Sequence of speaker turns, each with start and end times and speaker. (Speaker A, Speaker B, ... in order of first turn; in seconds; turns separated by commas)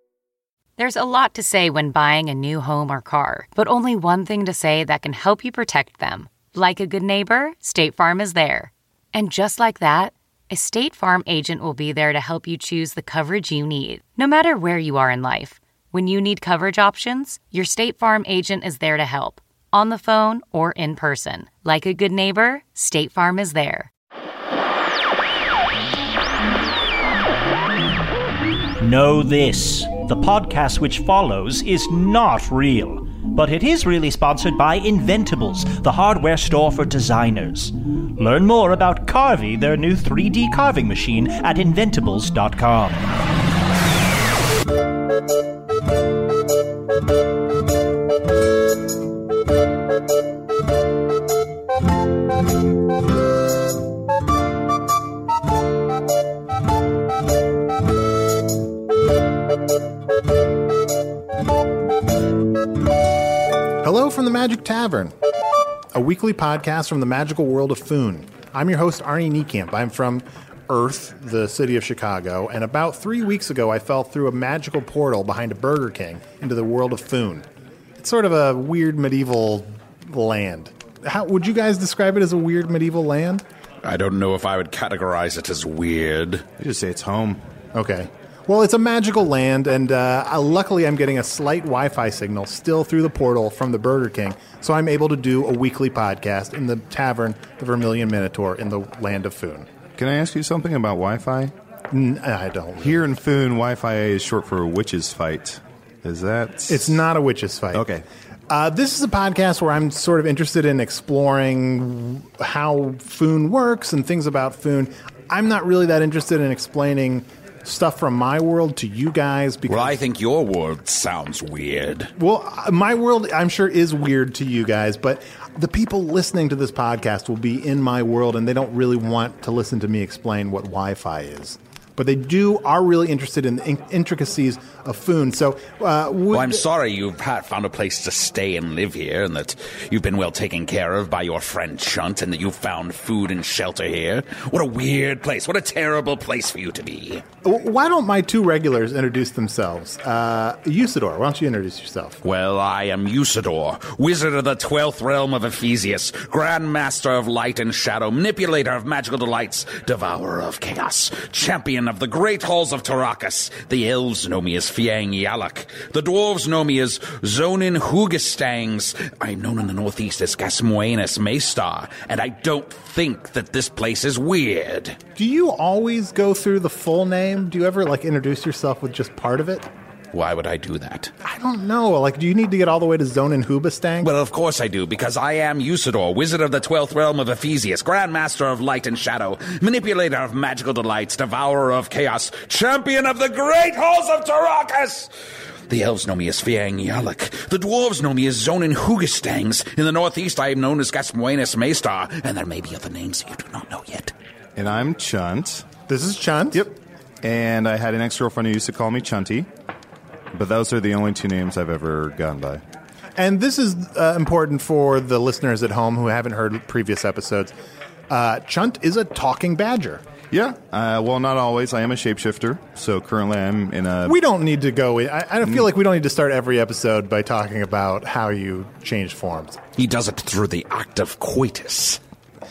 Speaker A: 0.8-23.9, Speaker B: 28.8-43.0, Speaker C: 63.8-65.2, Speaker C: 65.9-77.5, Speaker C: 78.0-83.4, Speaker D: 83.8-86.5, Speaker E: 86.6-87.4, Speaker C: 87.8-99.7, Speaker E: 100.0-101.5, Speaker C: 101.9-103.0, Speaker E: 102.8-107.0, Speaker C: 106.7-107.8, Speaker E: 107.7-108.0, Speaker C: 108.5-120.0, Speaker D: 119.7-122.1, Speaker C: 122.2-136.6, Speaker D: 136.3-147.2, Speaker C: 147.4-152.2, Speaker D: 152.2-175.0, Speaker C: 175.2-179.7, Speaker D: 180.1-181.1, Speaker C: 181.2-184.1, Speaker D: 184.0-195.1, Speaker D: 195.7-204.1, Speaker E: 204.6-205.7, Speaker C: 205.9-206.7, Speaker E: 206.5-209.5, Speaker E: 210.3-212.6, Speaker C: 213.2-217.5, Speaker C: 218.1-220.0, Speaker E: 220.3-224.2, Speaker C: 224.1-229.6, Speaker D: 229.8-232.0